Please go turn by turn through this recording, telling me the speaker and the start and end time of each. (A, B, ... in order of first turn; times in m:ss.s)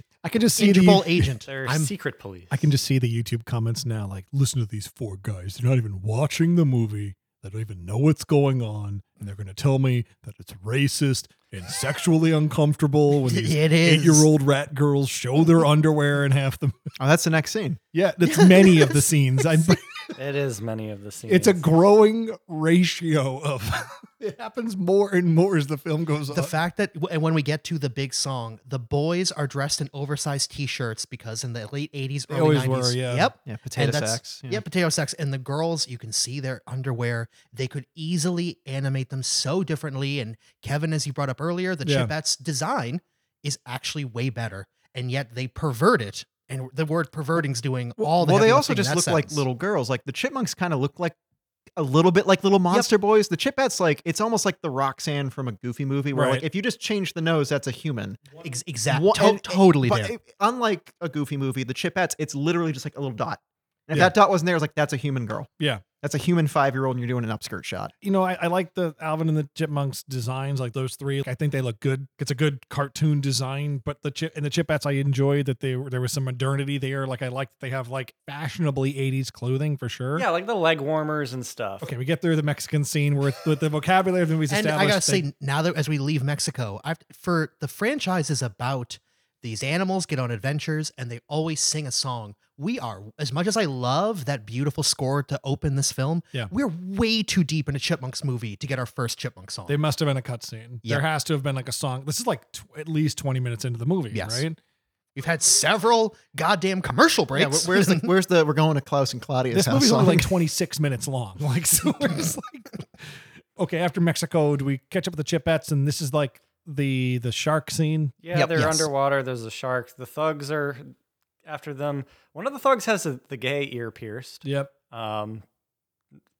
0:00.2-0:01.3 A
0:00.6-0:01.9 B
0:01.5-0:02.7 C
0:02.5-0:16.7 A
0:13.3-0:14.3 B
0:17.0-0:17.8 D
0:17.9-0:20.1 A
0:18.2-0:19.7 B
0:20.2-0:21.6 C
0:21.3-0:26.5 A
0:26.3-0:49.4 B
0:32.3-0:33.3 A
0:33.4-0:34.6 D
0:41.8-0:42.1 A
0:48.0-0:51.2 D
0:51.8-0:58.2 D
0:56.1-0:56.4 A
0:58.4-1:00.1 B
0:58.9-1:05.5 D
1:06.0-1:07.9 D
1:08.0-1:20.3 A
1:20.2-1:21.9 C
1:21.8-1:25.2 A
1:24.5-1:39.8 B
1:39.7-1:44.6 A
1:44.1-1:44.4 B
1:45.1-1:48.1 B
1:47.3-1:50.3 D
1:49.5-1:53.0 A
1:53.6-1:58.1 A
1:58.2-2:00.9 C
1:58.3-1:58.9 B
2:01.4-2:05.4 C
2:04.4-2:04.7 A